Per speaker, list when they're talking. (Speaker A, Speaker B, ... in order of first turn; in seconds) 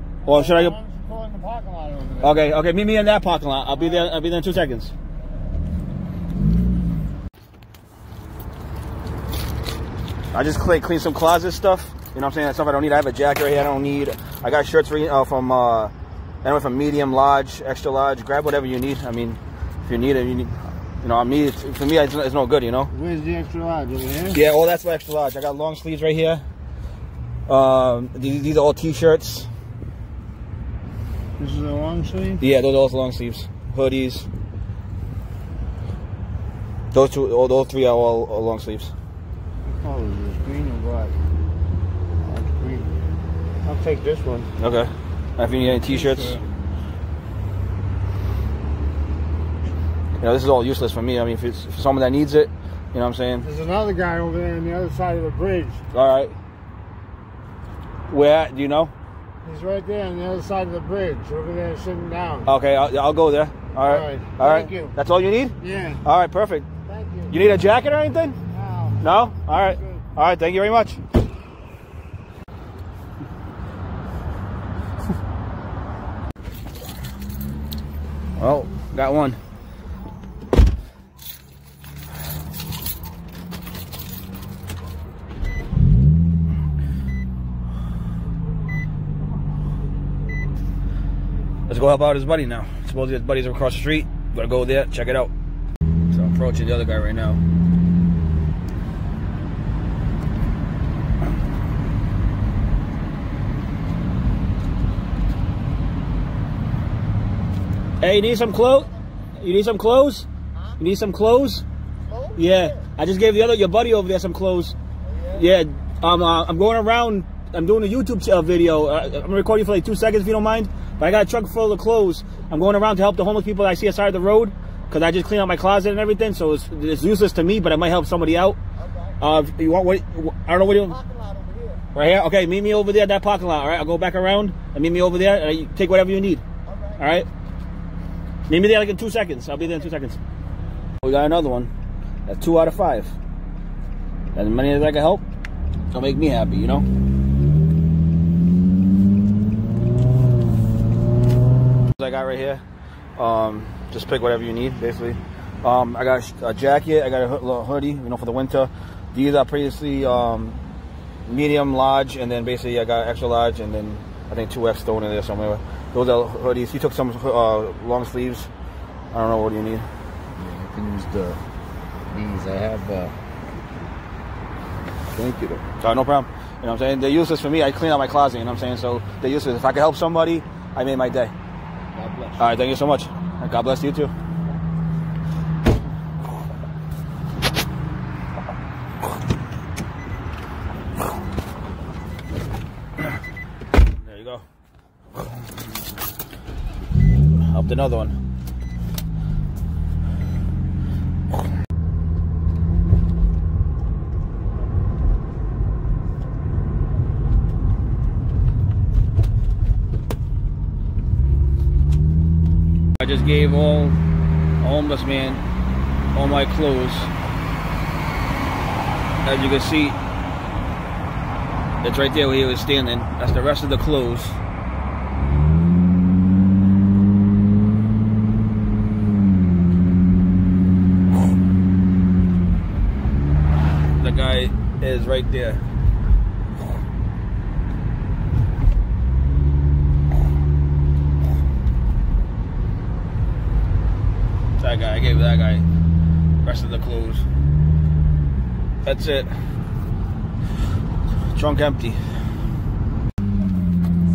Speaker A: 0.2-0.8, 2.2-4.9, 10.3-15.9, 16.4-22.9, 24.3-26.4, 27.5-29.5, 32.4-34.3, 36.9-38.9, 44.6-46.4, 50.2-53.5, 55.9-56.4, 58.1-58.9, 62.4-66.7, 67.3-68.4, 69.0-71.0, 78.4-79.4, 91.7-95.3, 96.1-97.4, 108.0-110.3, 110.8-111.6, 112.3-114.8, 115.3-128.6, 129.2-131.0, 131.9-136.4, 137.0-137.3, 138.5-140.2, 141.0-141.7, 142.3-143.2, 144.3-145.2, 145.9-146.9, 151.9-152.6, 153.2-160.6, 161.2-168.5, 169.1-169.9, 175.8-181.3, 182.4-184.1, 193.9-194.4, 197.4-198.2, 213.0-214.0, 214.6-215.4, 216.1-217.1, 219.2-220.0, 221.8-224.4, 234.0-235.6, 244.6-245.7, 246.4-247.2, 248.8-249.3, 251.3-252.0
Speaker B: 0.2-2.3, 22.9-24.4, 31.4-32.4, 39.7-41.1, 42.2-42.9, 43.6-44.5, 45.9-46.4, 53.5-55.8, 59.4-62.5, 63.8-64.9, 65.6-66.0, 66.9-67.3, 68.5-69.0
Speaker C: 131.4-131.7, 170.4-171.4, 172.1-173.1, 175.1-175.7, 182.0-182.4